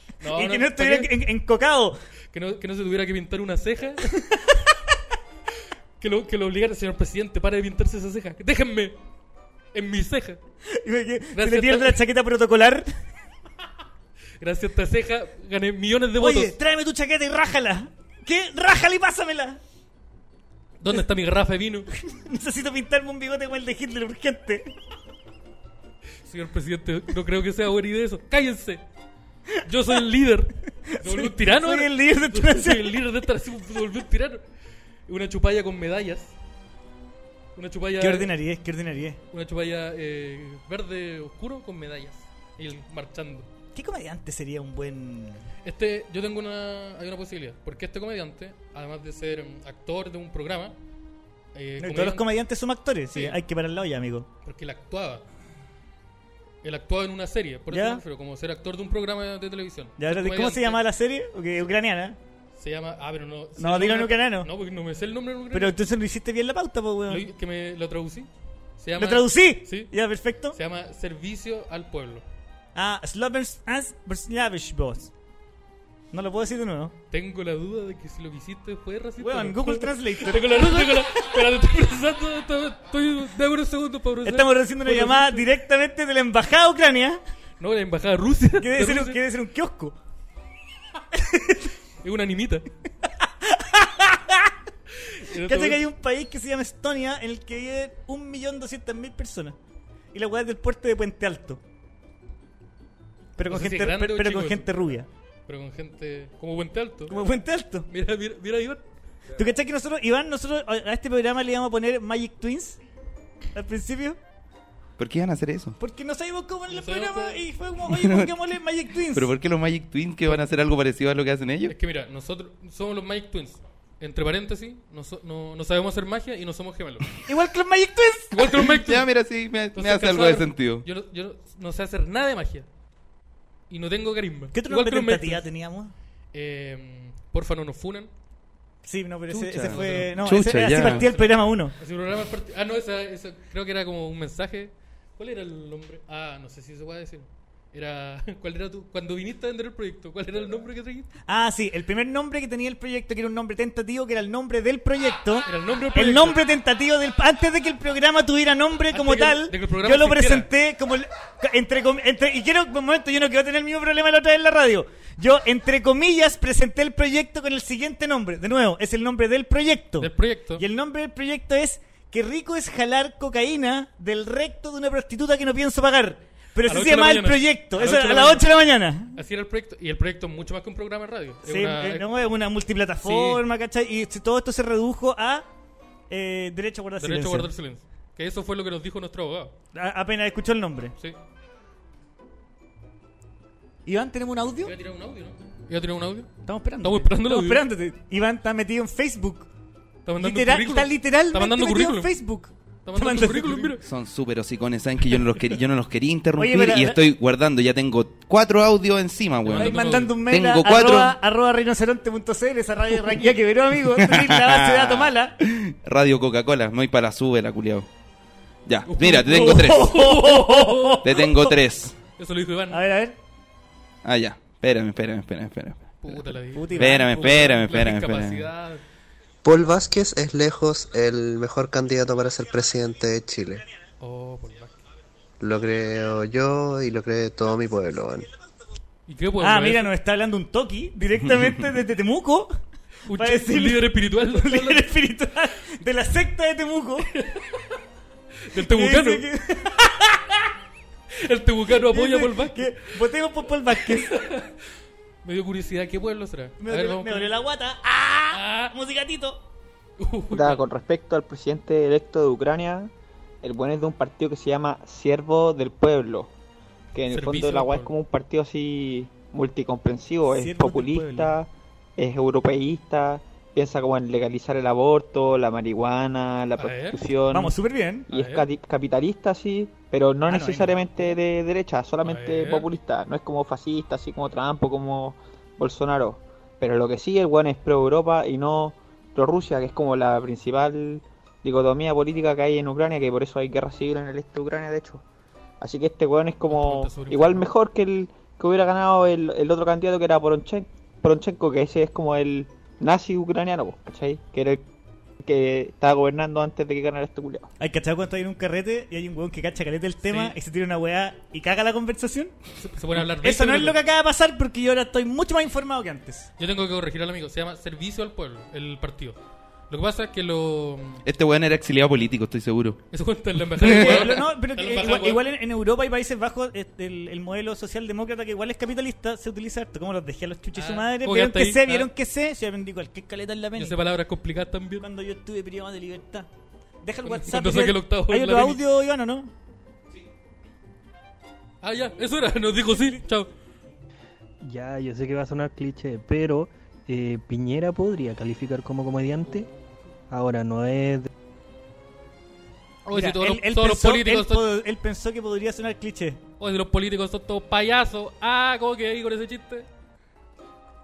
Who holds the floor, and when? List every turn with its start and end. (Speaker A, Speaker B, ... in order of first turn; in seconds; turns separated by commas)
Speaker A: 0.2-1.2, Speaker B: 0.3-2.0, Speaker A: 2.3-4.1, Speaker B: 4.2-4.6, Speaker A: 6.0-9.0, Speaker A: 9.7-10.4, Speaker B: 10.7-12.9, Speaker A: 11.3-12.0, Speaker A: 14.4-16.6, Speaker B: 16.2-19.6, Speaker A: 20.8-21.9, Speaker B: 22.1-24.7, Speaker A: 26.2-28.8, Speaker A: 29.6-34.4, Speaker B: 30.9-33.0, Speaker A: 35.1-36.3, Speaker A: 37.5-38.3, Speaker B: 38.0-39.2, Speaker A: 39.3-43.5, Speaker B: 43.7-45.5, Speaker A: 45.6-50.8, Speaker A: 51.5-52.2, Speaker B: 51.8-54.3, Speaker A: 53.1-53.4, Speaker A: 54.4-55.2, Speaker A: 56.6-60.8, Speaker B: 57.7-58.0, Speaker B: 60.0-62.2, Speaker A: 62.5-65.8, Speaker B: 63.6-64.5, Speaker B: 65.5-67.3, Speaker A: 67.1-69.9, Speaker B: 69.0-70.6, Speaker A: 70.5-72.2, Speaker B: 72.7-75.1, Speaker B: 76.1-76.9, Speaker A: 77.1-85.5, Speaker B: 79.2-81.4, Speaker B: 84.2-87.2, Speaker A: 87.6-89.2, Speaker B: 88.6-90.0, Speaker B: 91.1-91.7, Speaker A: 92.0-92.7, Speaker B: 93.0-94.5, Speaker A: 95.0-95.8, Speaker B: 95.4-99.5, Speaker B: 100.1-101.6, Speaker B: 103.4-105.1, Speaker A: 103.4-104.9, Speaker A: 105.5-107.2, Speaker B: 107.1-107.9, Speaker A: 107.9-108.8, Speaker B: 109.3-112.8, Speaker B: 113.5-114.2, Speaker C: 115.0-115.8, Speaker B: 115.8-119.3, Speaker A: 116.7-117.4, Speaker C: 117.9-118.3, Speaker C: 119.1-121.7, Speaker A: 121.7-127.1, Speaker B: 127.3-128.3, Speaker A: 128.3-129.1, Speaker C: 128.7-130.8, Speaker A: 129.7-132.7, Speaker A: 133.7-135.5, Speaker B: 134.5-135.9, Speaker A: 136.3-138.1, Speaker B: 138.8-141.7, Speaker C: 139.3-141.1, Speaker A: 139.4-151.1, Speaker B: 151.3-179.2, Speaker A: 155.4-156.4, Speaker A: 158.9-160.5, Speaker A: 170.0-170.6, Speaker A: 176.7-178.5, Speaker A: 179.1-182.1, Speaker B: 181.4-185.4, Speaker A: 183.0-183.4, Speaker B: 186.1-187.5, Speaker A: 187.0-189.5, Speaker B: 189.7-190.9, Speaker B: 193.8-194.7, Speaker A: 194.6-197.6, Speaker B: 196.4-199.5, Speaker A: 200.1-202.1, Speaker B: 200.2-203.8, Speaker A: 202.8-203.8, Speaker C: 203.8-211.2, Speaker B: 206.4-207.0, Speaker A: 209.4-210.2, Speaker B: 209.5-215.3, Speaker C: 213.8-217.9, Speaker C: 218.7-220.1, Speaker A: 218.8-221.0, Speaker B: 219.2-221.5, Speaker C: 221.0-221.9, Speaker A: 222.2-222.8, Speaker B: 222.7-223.2, Speaker C: 224.0-226.2, Speaker A: 226.0-228.8, Speaker B: 226.5-227.5, Speaker C: 226.7-228.4, Speaker D: 229.4-233.6, Speaker A: 234.0-234.8, Speaker D: 235.4-238.3, Speaker A: 239.1-239.9, Speaker B: 239.4-242.5, Speaker A: 243.1-244.9, Speaker B: 243.1-247.1, Speaker A: 247.1-247.8, Speaker A: 248.4-249.2, Speaker B: 248.5-250.4, Speaker A: 251.1-253.0, Speaker B: 251.7-254.1, Speaker A: 253.7-254.7, Speaker A: 255.2-257.4, Speaker B: 256.6-259.4, Speaker A: 258.3-258.7, Speaker A: 260.0-260.6, Speaker E: 260.3-262.9, Speaker E: 263.4-266.3, Speaker E: 266.9-277.6, Speaker A: 267.1-267.9, Speaker B: 270.3-271.4, Speaker A: 276.6-277.0, Speaker B: 277.3-278.1, Speaker E: 278.1-295.0, Speaker A: 278.1-278.5, Speaker B: 280.3-280.8, Speaker A: 282.0-282.7, Speaker E: 295.6-304.6, Speaker A: 296.4-297.5, Speaker E: 305.2-307.5, Speaker B: 307.6-312.3, Speaker A: 310.0-310.4, Speaker A: 312.6-313.8, Speaker B: 313.2-316.3, Speaker A: 316.4-319.2, Speaker A: 319.7-321.0, Speaker C: 321.0-322.8, Speaker A: 322.9-325.2, Speaker C: 323.5-324.2, Speaker B: 323.6-333.8, Speaker A: 330.5-331.9, Speaker A: 333.6-334.9, Speaker B: 334.8-336.3, Speaker B: 336.8-339.3, Speaker A: 337.0-338.6, Speaker A: 341.6-343.3, Speaker B: 342.7-343.0, Speaker F: 344.4-349.5, Speaker A: 349.2-349.7, Speaker F: 350.1-351.1, Speaker A: 352.9-354.4, Speaker B: 352.9-356.2, Speaker A: 356.4-359.7